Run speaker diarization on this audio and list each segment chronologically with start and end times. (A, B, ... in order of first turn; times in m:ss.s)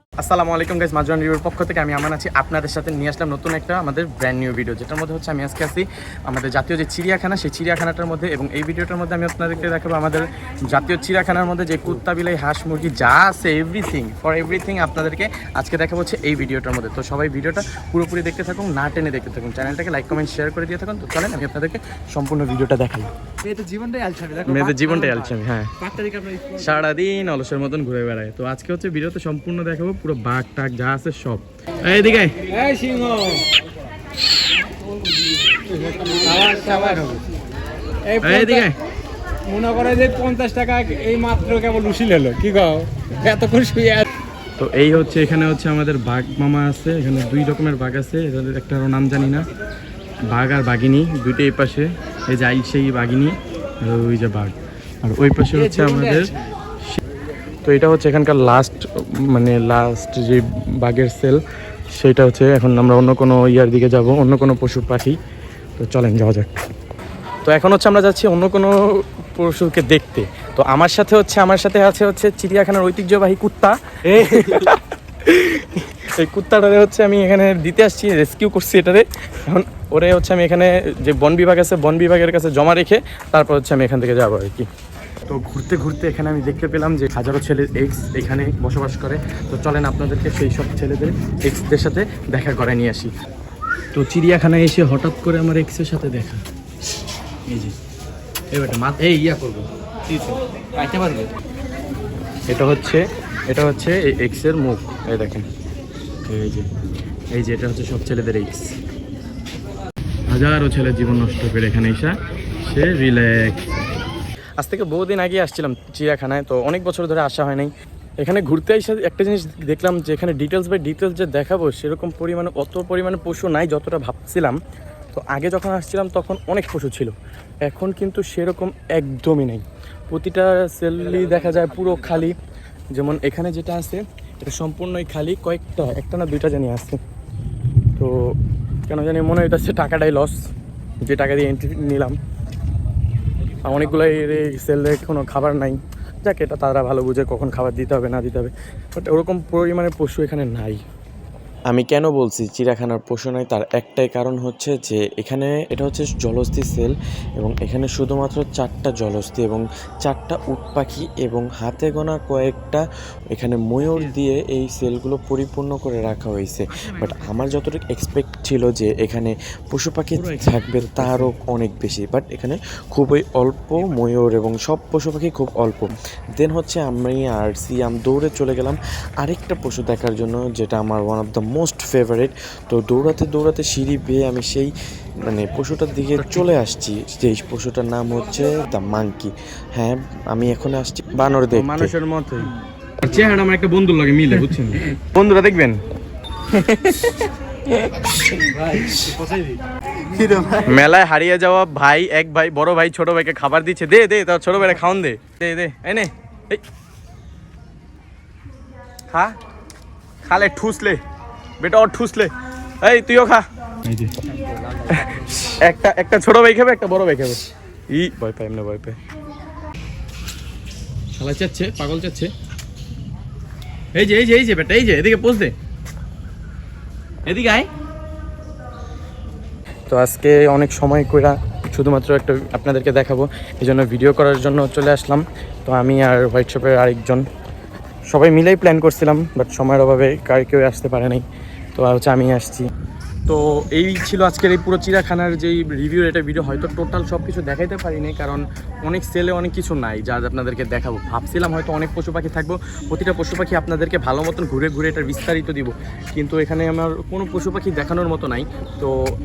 0:00.2-0:23.1 A
0:23.5-0:24.4 B
0:24.4-0:32.5 A
0:32.5-0:33.4 B
0:35.8-0:37.2 B
0:38.1-0:38.8 A
0:39.5-0:44.0 B
0:44.6-0:49.4 A
0:50.3-0:57.0 A
0:57.6-1:01.4 A
1:01.9-1:05.2 A
1:05.8-1:06.6 A
1:07.4-1:24.7 A
1:25.2-1:33.1 A
1:33.9-1:36.4 A
1:37.5-1:37.7 A
1:38.5-1:41.3 A
1:42.5-1:45.5 A
1:46.2-1:46.7 A
1:47.3-1:48.8 A
1:50.3-1:53.6 A
1:54.6-2:04.6 A
2:05.1-2:12.4 A
2:12.9-2:17.0 A
2:18.0-2:18.3 A
2:18.9-2:20.4 A
2:21.0-2:22.2 A
2:23.6-2:30.8 A
2:31.7-3:04.7 C
2:50.1-2:51.3 A
3:05.2-3:11.9 C
3:06.2-3:06.5 A
3:11.5-3:15.8 A
3:16.5-3:19.4 A
3:20.2-3:20.5 B
3:20.4-3:26.6 A
3:29.1-3:29.4 A
3:30.2-3:31.0 A
3:31.6-3:34.1 A
3:34.8-3:39.0 A
3:41.1-3:42.3 A
3:43.9-3:45.5 A
3:47.2-3:47.7 A
3:49.9-3:57.2 A
3:58.1-4:02.7 A
4:03.2-4:19.0 A